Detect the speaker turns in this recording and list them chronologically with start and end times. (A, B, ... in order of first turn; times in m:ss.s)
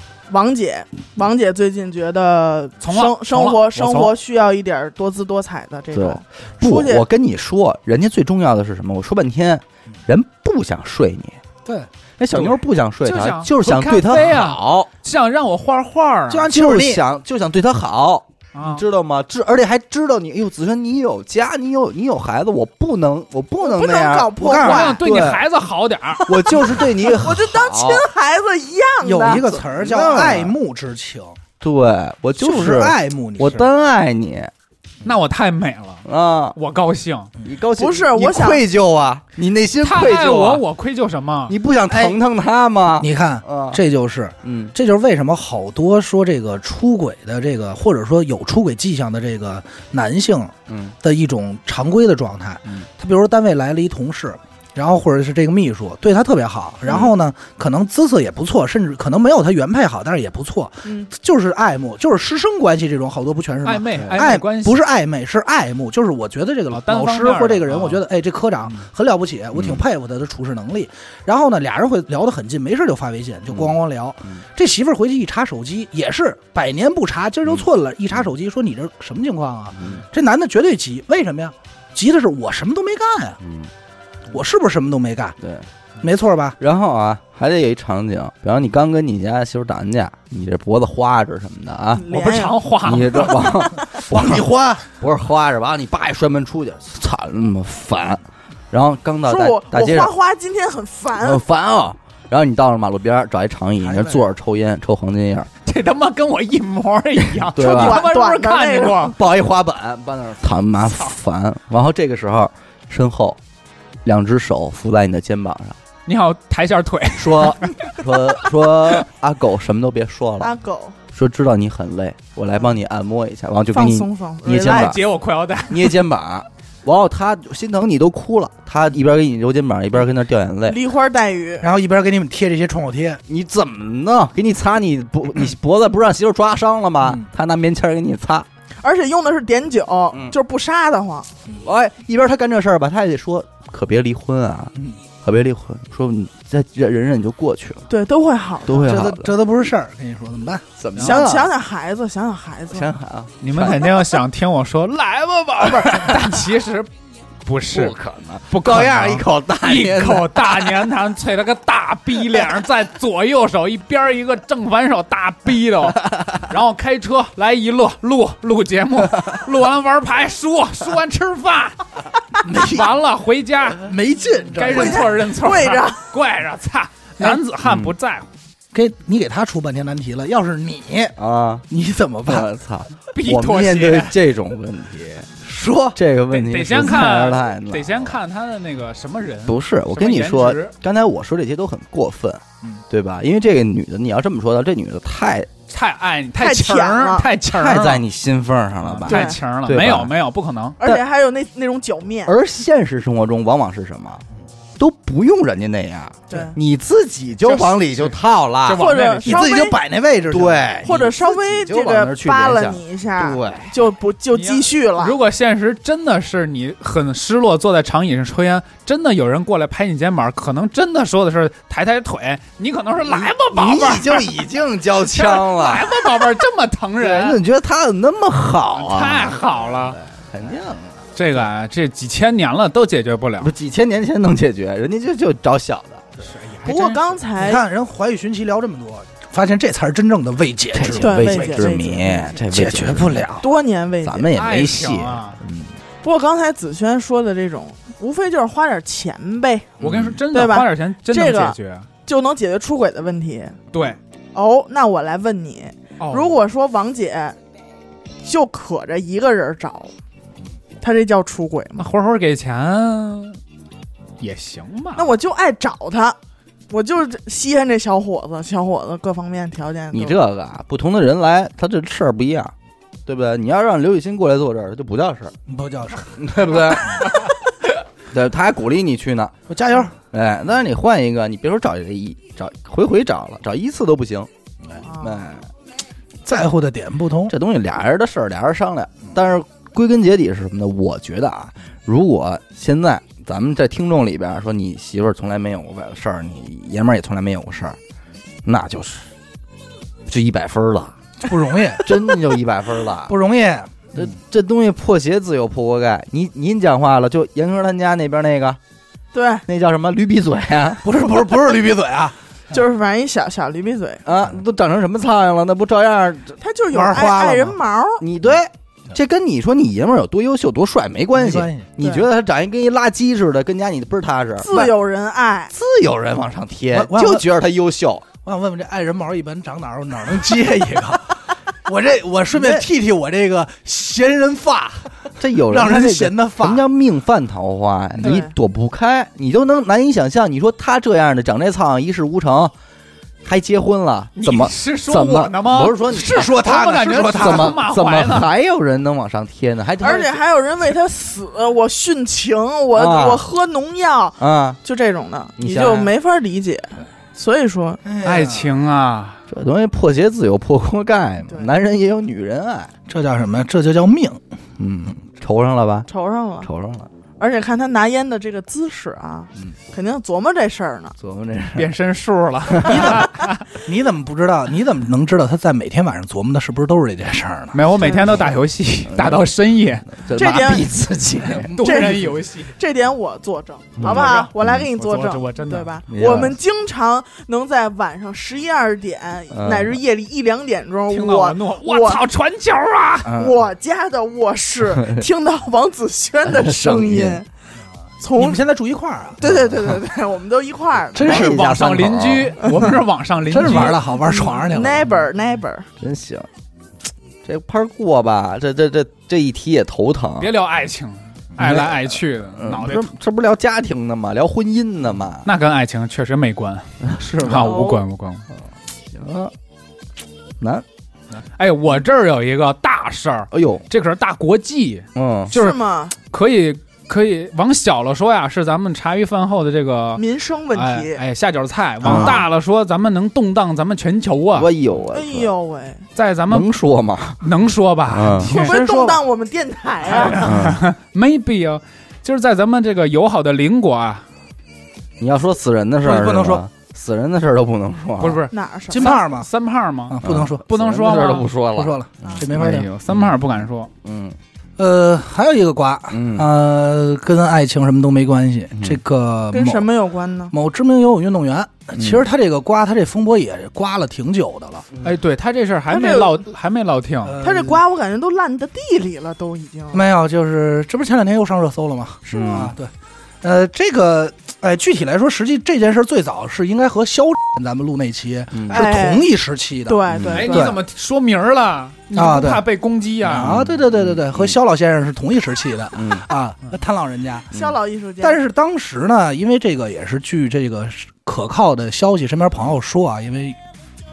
0:00.3-0:07.0 A
0:02.8-0:04.2 B
0:05.9-0:11.4 C
0:12.2-0:14.9 C
0:12.3-0:16.5 B
0:16.3-0:17.0 D
0:16.4-0:25.4 C
0:18.5-0:18.8 B
0:23.6-0:25.0 A
0:24.4-0:25.0 D
0:24.6-0:26.3 B
0:26.3-0:28.1 C
0:26.3-0:29.4 A
0:29.0-0:31.4 D
0:29.3-0:30.6 C
0:31.6-0:34.5 C
0:32.4-0:33.7 D
0:35.0-0:37.3 B
0:36.0-0:36.6 C
0:37.4-0:40.6 C
0:37.8-0:38.6 A
0:39.8-0:41.6 B
0:41.5-0:43.8 C
0:41.9-0:42.2 D
0:43.0-1:23.4 D
0:44.4-0:44.7 C
0:50.7-0:50.9 C
1:03.6-1:04.8 B
1:06.7-1:08.0 B
1:09.6-1:09.8 C
1:19.8-1:20.0 C
1:23.4-1:23.7 C
1:24.3-1:25.4 D
1:25.4-1:25.7 C
1:26.0-1:26.6 D
1:26.6-1:32.1 C
1:31.9-1:32.6 A
1:32.1-1:33.4 B
1:32.8-1:34.5 C
1:33.9-1:34.9 D
1:35.0-1:40.1 C
1:39.3-1:41.4 A
1:41.2-1:45.5 C
1:43.8-1:44.2 D
1:45.6-1:49.2 B
1:47.4-1:48.1 C
1:47.6-1:49.1 A
1:49.0-1:53.4 C
1:54.0-1:55.8 C
1:56.1-1:57.9 B
1:57.2-2:00.5 C
2:00.4-2:01.0 A
2:01.1-2:05.0 C
2:03.7-2:05.0 A
2:04.6-2:06.0 B
2:05.7-2:10.8 C
2:10.7-2:11.7 A
2:11.6-2:13.2 D
2:13.3-2:18.5 C
2:18.8-2:21.3 A
2:21.6-2:27.9 C
2:27.9-2:28.9 A
2:28.6-2:29.4 C
2:28.8-2:31.5 D
2:30.8-2:31.5 C
2:31.0-2:32.9 A
2:32.7-2:34.0 C
2:33.4-2:36.9 B
2:37.4-2:38.0 B
2:37.7-2:40.7 C
2:38.5-2:51.8 B
2:52.4-2:52.9 D
2:52.6-2:53.9 B
2:53.8-2:55.1 D
2:54.5-2:58.3 B
2:54.7-2:56.0 A
2:57.6-2:57.9 C
2:58.7-3:01.2 D
3:01.2-3:01.7 C
3:01.7-3:02.5 D
3:02.3-3:08.2 C
3:03.1-3:04.2 B
3:05.5-3:06.0 D
3:06.3-3:10.7 B
3:09.5-3:15.5 C
3:15.7-3:18.0 B
3:16.4-3:17.3 A
3:17.5-3:20.1 C
3:18.8-3:20.8 B
3:19.1-3:19.4 A
3:20.8-3:22.4 A
3:22.2-3:24.2 C
3:24.8-3:28.9 C
3:26.3-3:26.6 A
3:27.4-3:28.1 B
3:28.6-3:29.4 B
3:28.7-3:29.8 A
3:29.2-3:30.8 D
3:30.3-3:33.7 C
3:30.8-3:35.2 A
3:34.3-3:44.3 B
3:43.1-3:46.4 C
3:45.1-3:47.4 B
3:47.0-3:51.0 C
3:48.7-3:50.0 B
3:51.2-3:53.5 B
3:53.4-3:56.1 C
3:56.2-3:57.2 B
3:56.6-3:57.6 A
3:57.4-4:03.5 D
4:00.7-4:03.3 C
4:01.0-4:02.4 A
4:03.4-4:04.3 A
4:04.0-4:05.7 C
4:04.3-4:05.4 B
4:06.0-4:13.6 A
4:09.8-4:10.2 C
4:09.8-4:11.9 B
4:13.7-4:14.0 B
4:14.3-4:17.4 A
4:16.0-4:16.4 B
4:18.2-4:19.9 A
4:20.8-4:21.9 A
4:21.8-4:23.4 B
4:24.2-4:25.1 B
4:25.0-4:26.2 A
4:26.7-4:30.2 A
4:29.9-4:32.5 C
4:33.1-4:35.4 C
4:35.5-4:36.6 D
4:36.2-4:37.3 C
4:38.1-4:39.4 C
4:39.5-4:39.9 D
4:40.0-4:44.3 C
4:44.8-4:45.3 A
4:45.0-4:45.5 C
4:46.3-4:47.3 D
4:47.3-4:57.8 C
4:58.4-4:59.1 C
5:00.1-5:01.0 C
5:01.2-5:02.0 D
5:01.8-5:03.1 C
5:03.1-5:04.0 D
5:04.0-5:08.6 C
5:09.1-5:09.4 A
5:09.5-5:10.8 C
5:10.8-5:12.2 D
5:12.5-5:14.0 A
5:14.0-5:16.4 C
5:16.4-5:18.0 A
5:16.7-5:17.6 D
5:18.0-5:24.7 C
5:21.2-5:21.7 D
5:24.4-5:25.5 A
5:25.5-5:28.1 C
5:26.7-5:27.3 D
5:28.2-5:36.6 D
5:32.3-5:32.7 C
5:35.2-5:42.5 C
5:38.0-5:38.3 A
5:43.2-5:46.3 C
5:44.2-5:48.3 B
5:45.9-5:47.6 D
5:47.0-5:50.2 C
5:49.8-5:57.8 A
5:52.7-5:53.2 C
5:54.2-5:54.6 C
5:55.4-5:55.9 C
5:57.8-5:58.5 D
5:58.0-5:59.2 B
5:59.3-6:02.7 C
6:02.9-6:04.2 D
6:04.6-6:05.9 C
6:05.9-6:06.5 A
6:06.4-6:06.9 C
6:07.2-6:11.0 A
6:11.0-6:11.7 C
6:11.6-6:13.5 B
6:12.5-6:12.9 C
6:12.7-6:13.2 A
6:13.5-6:17.6 D
6:17.5-6:20.5 B
6:17.8-6:18.3 A
6:18.9-6:19.3 C
6:19.9-6:21.5 C
6:20.1-6:20.7 A
6:21.4-6:22.5 B
6:21.6-6:32.0 A
6:23.8-6:24.6 C
6:23.8-6:25.8 B
6:25.9-6:26.4 C
6:29.3-6:29.8 C
6:30.9-6:33.1 B
6:33.0-6:33.4 C
6:33.1-6:37.3 A
6:34.6-6:35.1 C
6:36.2-6:37.2 C
6:38.0-6:38.4 A
6:38.2-6:39.2 D
6:39.2-6:41.4 A
6:39.2-6:39.8 C
6:40.9-6:41.4 D
6:41.0-6:42.4 C
6:41.1-6:43.8 B
6:43.3-6:45.0 D
6:44.0-6:45.7 A
6:45.8-6:46.3 C
6:47.2-6:50.3 C
6:50.2-6:52.9 B
6:51.4-6:55.3 C
6:55.2-6:58.3 B
6:56.8-6:57.8 C
6:57.3-6:57.8 A
6:58.9-6:59.3 C
7:00.4-7:00.7 C
7:01.2-7:14.5 B
7:03.3-7:03.6 C
7:05.0-7:05.3 C
7:05.3-7:06.0 A
7:10.0-7:11.0 A
7:11.8-7:12.2 C
7:14.3-7:15.3 C
7:14.9-7:15.8 A
7:16.0-7:16.5 B
7:16.3-7:17.2 C
7:17.2-7:19.0 B
7:17.9-7:18.4 C
7:18.3-7:20.4 A
7:18.4-7:18.8 D
7:19.9-7:24.0 B
7:20.2-7:20.6 C
7:25.0-7:28.3 C
7:25.8-7:26.4 D
7:28.0-7:31.3 B
7:28.3-7:29.0 A
7:28.7-7:29.3 D
7:29.9-7:30.5 D
7:30.0-7:32.3 C
7:31.5-7:32.7 D
7:32.3-7:33.7 B
7:32.9-7:33.1 C
7:33.8-7:34.2 C
7:34.6-7:39.7 D
7:35.9-7:36.3 C
7:38.6-7:38.8 C
7:39.3-7:40.3 A
7:40.3-7:44.7 D
7:41.8-7:42.0 C
7:44.8-7:47.2 B
7:45.7-7:46.2 A
7:47.0-7:47.6 D
7:47.2-7:49.8 A
7:49.7-7:52.7 D
7:52.1-7:52.5 A
7:52.1-7:52.5 C
7:53.2-8:00.6 D
7:58.3-7:58.7 C
7:58.5-7:59.1 A
7:59.7-8:00.6 A
7:59.9-8:00.4 C
8:00.1-8:03.4 B
8:01.9-8:02.4 D
8:03.0-8:07.4 D
8:03.2-8:04.4 C
8:05.7-8:06.1 C
8:07.3-8:08.2 A
8:08.0-8:13.4 D